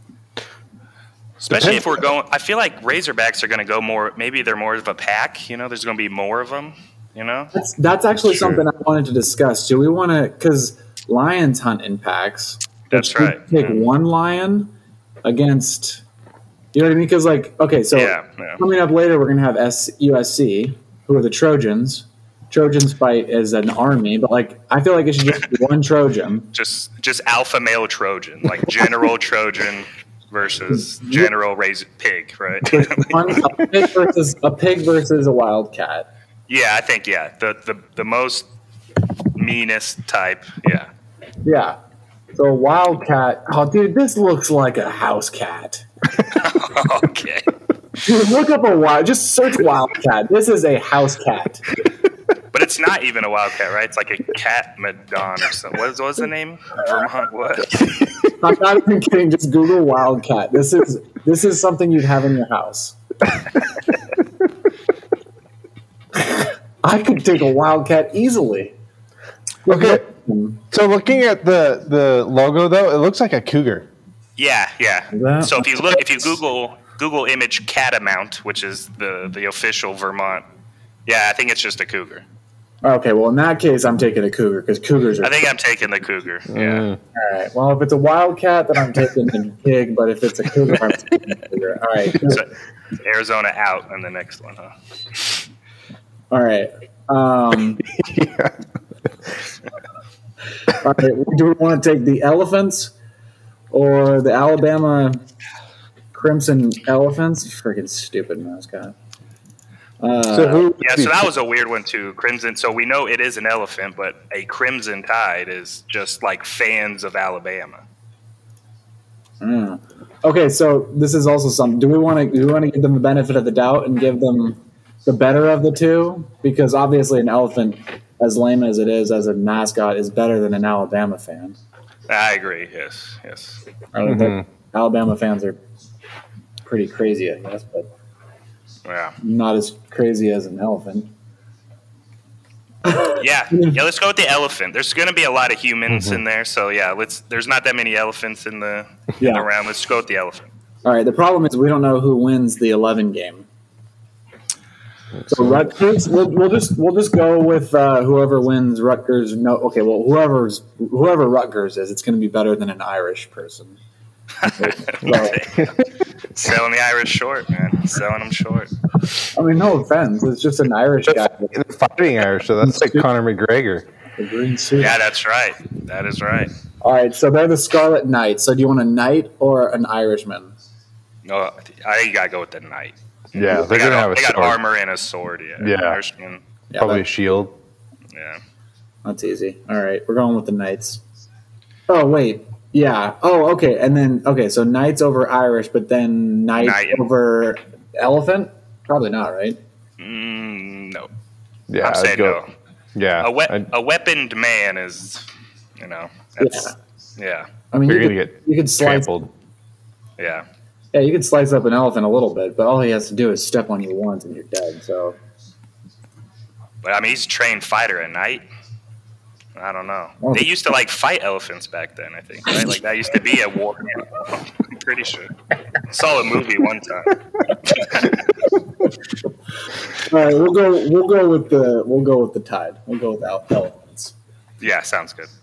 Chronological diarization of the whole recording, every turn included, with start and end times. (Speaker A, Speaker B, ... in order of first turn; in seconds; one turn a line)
Speaker A: 1.4-7.5
Speaker B: 1.5-2.0
Speaker C: 7.5-14.7
Speaker B: 8.3-8.6
Speaker A: 12.9-13.9
Speaker C: 15.2-16.0
Speaker C: 16.7-26.5
Speaker A: 17.9-18.6
Speaker A: 26.5-33.4
Speaker C: 30.7-31.3
Speaker C: 32.7-36.1
Speaker B: 33.4-33.9
Speaker A: 36.5-38.5
Speaker A: 39.3-40.9
Speaker C: 41.4-41.8
Speaker C: 42.4-45.8
Speaker A: 46.3-47.5
Speaker C: 48.0-51.6
Speaker A: 52.5-58.0
Speaker C: 58.4-63.0
Speaker C: 66.2-68.7
Speaker C: 69.6-70.6
Speaker B: 69.7-70.0
Speaker B: 70.7-73.9
Speaker A: 74.4-80.4
Speaker C: 75.1-75.8
Speaker A: 81.0-82.2
Speaker C: 82.8-85.4
Speaker A: 85.2-86.8
Speaker B: 86.5-87.0
Speaker C: 87.1-92.4
Speaker A: 92.2-94.7
Speaker C: 96.3-97.8
Speaker B: 97.8-98.5
Speaker C: 100.7-102.9
Speaker C: 103.7-105.2
Speaker C: 106.1-108.9
Speaker C: 110.0-110.7
Speaker B: 110.3-111.3
Speaker A: 110.8-117.8
Speaker C: 119.4-131.6
Speaker A: 132.1-133.6
Speaker C: 133.9-135.6
Speaker B: 134.0-134.4
Speaker C: 136.6-137.9
Speaker A: 138.8-139.2
Speaker C: 139.2-141.1
Speaker C: 142.8-143.8
Speaker A: 143.2-150.5
Speaker B: 145.9-146.2
Speaker C: 149.2-149.5
Speaker C: 150.8-153.5
Speaker B: 155.2-155.7
Speaker C: 155.3-163.8
Speaker A: 164.4-168.7
Speaker C: 164.4-165.4
Speaker C: 169.3-171.6
Speaker B: 171.1-173.8
Speaker C: 172.6-173.1
Speaker C: 174.2-175.0
Speaker A: 174.8-176.5
Speaker C: 176.8-180.5
Speaker A: 181.2-186.4
Speaker B: 183.3-184.6
Speaker B: 185.6-186.0
Speaker C: 186.7-187.0
Speaker B: 186.8-187.5
Speaker A: 188.1-188.4
Speaker C: 189.0-191.0
Speaker C: 191.9-199.6
Speaker A: 196.6-197.0
Speaker A: 200.0-201.1
Speaker B: 201.7-202.4
Speaker A: 201.8-202.5
Speaker B: 202.9-203.6
Speaker A: 203.2-205.3
Speaker A: 205.8-207.5
Speaker C: 206.4-206.7
Speaker C: 207.7-209.1
Speaker B: 207.8-209.3
Speaker A: 210.2-210.4
Speaker C: 210.9-215.2
Speaker A: 216.8-218.4
Speaker A: 219.6-225.3
Speaker C: 220.2-220.5
Speaker A: 225.9-228.2
Speaker C: 230.0-234.1
Speaker A: 234.6-235.3